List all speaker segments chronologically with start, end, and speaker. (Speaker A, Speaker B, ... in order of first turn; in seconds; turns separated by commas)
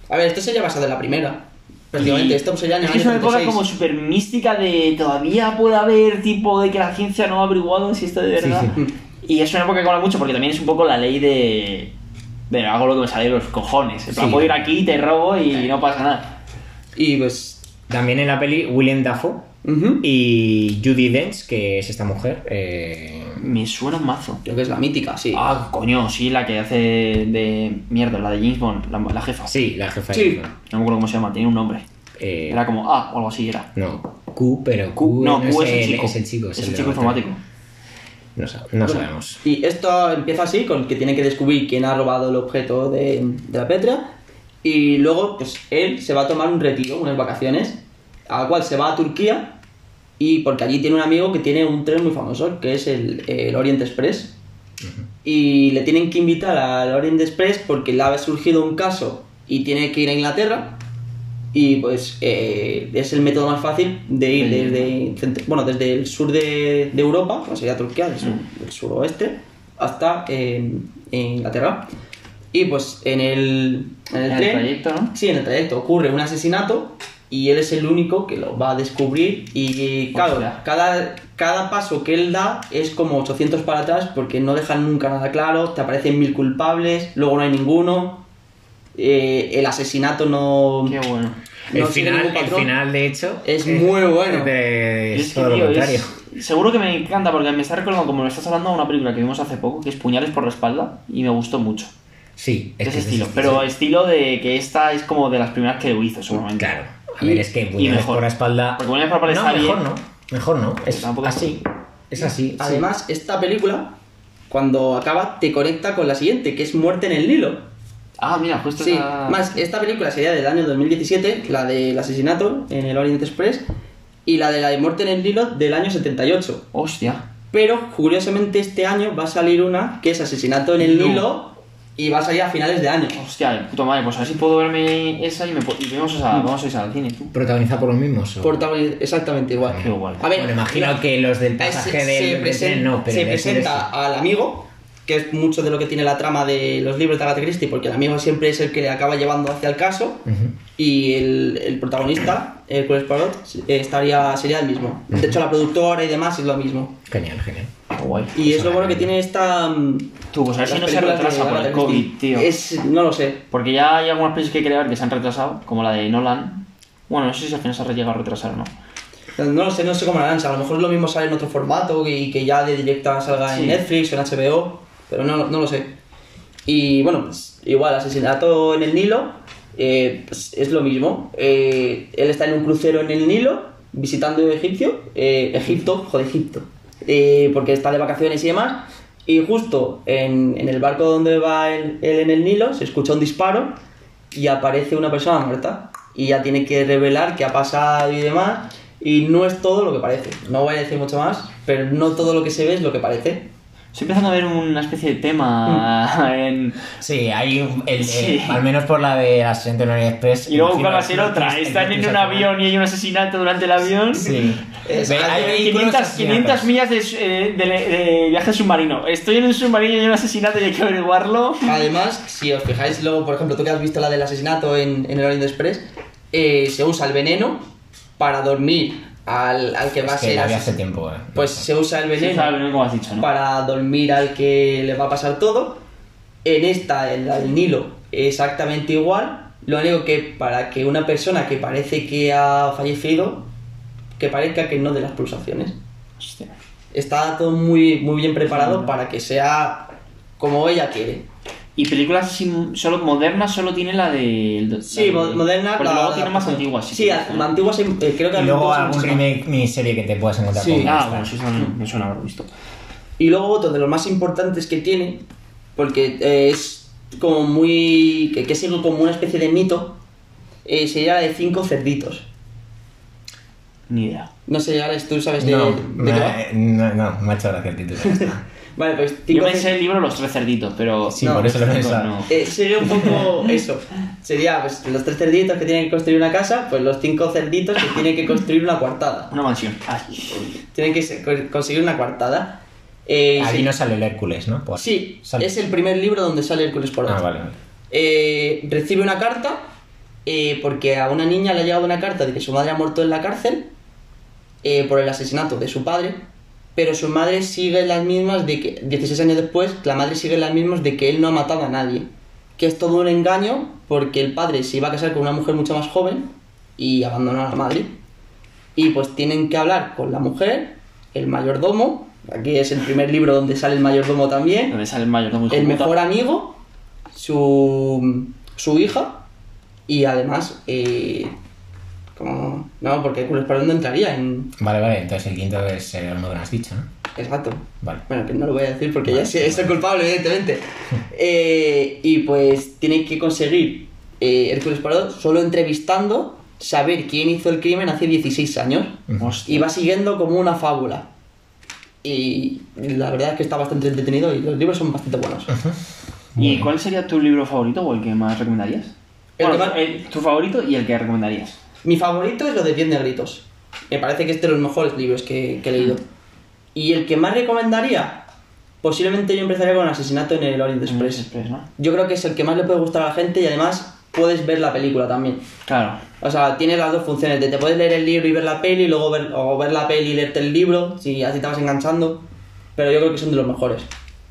Speaker A: 0.1-3.6, Speaker B: 2.0-11.9, Speaker C: 8.4-8.8, Speaker B: 12.5-16.4, Speaker C: 14.1-14.7, Speaker A: 16.9-17.6, Speaker C: 17.9-19.5, Speaker A: 19.6-20.1, Speaker C: 20.0-23.4, Speaker B: 23.4-24.4, Speaker A: 24.4-25.5, Speaker B: 25.3-29.6, Speaker C: 29.5-30.5, Speaker A: 30.1-30.4, Speaker B: 30.7-31.8, Speaker C: 32.2-32.6, Speaker B: 32.5-33.7, Speaker C: 33.8-37.2, Speaker B: 35.0-37.4, Speaker C: 38.4-39.4, Speaker A: 38.8-44.1, Speaker A: 44.6-49.6, Speaker A: 50.2-54.4, Speaker A: 55.2-60.8, Speaker A: 61.5-71.9, Speaker B: 64.3-64.9, Speaker A: 72.5-88.2, Speaker B: 74.3-75.1, Speaker B: 80.1-80.6, Speaker A: 89.0-91.0, Speaker B: 90.9-91.4, Speaker A: 91.7-92.7, Speaker C: 91.7-96.2, Speaker A: 93.5-94.5, Speaker B: 95.1-101.9, Speaker C: 102.4-103.7, Speaker B: 102.8-106.8, Speaker C: 106.6-112.9, Speaker B: 107.8-109.8, Speaker B: 110.9-111.6, Speaker A: 112.6-114.0, Speaker A: 114.5-117.7, Speaker B: 118.2-119.6, Speaker A: 118.8-123.7, Speaker A: 124.3-126.7, Speaker B: 126.7-127.2, Speaker A: 127.5-133.2, Speaker B: 130.8-131.3, Speaker B: 133.2-137.3, Speaker C: 137.3-138.7, Speaker A: 138.4-141.0, Speaker B: 139.7-140.3, Speaker C: 139.8-143.9, Speaker A: 141.6-157.0, Speaker C: 150.3-150.5, Speaker C: 157.1-157.7, Speaker B: 157.9-158.4, Speaker A: 158.3-163.4, Speaker C: 158.4-159.1, Speaker B: 160.3-162.5, Speaker B: 163.5-168.7, Speaker A: 169.4-175.9, Speaker B: 173.5-173.8, Speaker A: 176.7-193.8, Speaker A: 194.3-203.5, Speaker B: 203.9-206.8, Speaker C: 207.0-212.6, Speaker B: 208.0-208.6, Speaker B: 210.5-214.4, Speaker C: 214.1-216.7, Speaker A: 214.8-215.7, Speaker B: 215.0-221.8, Speaker A: 221.7-227.7, Speaker A: 228.2-230.8, Speaker C: 230.0-231.7, Speaker A: 231.3-232.6, Speaker B: 232.2-233.3, Speaker A: 233.2-235.8, Speaker A: 236.4-243.5, Speaker A: 244.2-245.8, Speaker B: 246.2-246.5, Speaker A: 246.9-251.3, Speaker B: 248.5-248.9, Speaker B: 251.8-257.5, Speaker A: 254.8-259.2, Speaker C: 258.3-261.3, Speaker A: 260.5-260.9, Speaker B: 260.8-262.5, Speaker A: 263.2-265.2, Speaker A: 265.8-270.0, Speaker A: 270.6-272.3, Speaker B: 273.9-274.3, Speaker A: 274.5-276.4, Speaker C: 275.4-278.4, Speaker A: 278.0-279.7, Speaker B: 279.3-282.4, Speaker C: 281.1-282.2, Speaker A: 281.2-281.5, Speaker A: 282.3-289.3, Speaker B: 289.3-290.5, Speaker A: 290.7-293.7, Speaker C: 293.4-295.5, Speaker A: 294.8-297.2, Speaker C: 297.1-297.6, Speaker A: 297.9-299.6, Speaker A: 300.3-303.7, Speaker A: 304.6-306.2, Speaker A: 306.8-318.0, Speaker A: 318.8-324.8, Speaker B: 324.7-326.0, Speaker A: 325.5-326.6, Speaker A: 327.1-329.2, Speaker A: 329.9-331.4, Speaker A: 332.2-334.5, Speaker C: 334.6-336.9, Speaker A: 337.2-351.1, Speaker C: 339.1-339.8, Speaker C: 349.1-349.3, Speaker B: 349.2-349.7, Speaker A: 352.0-355.5, Speaker C: 355.5-355.8, Speaker C: 356.4-356.7, Speaker B: 356.4-361.6, Speaker A: 359.4-359.8, Speaker A: 361.8-366.0, Speaker A: 366.8-368.3, Speaker A: 368.8-371.2, Speaker B: 370.9-371.7, Speaker A: 371.8-375.4, Speaker B: 375.7-376.0, Speaker A: 376.2-382.2, Speaker A: 382.8-383.9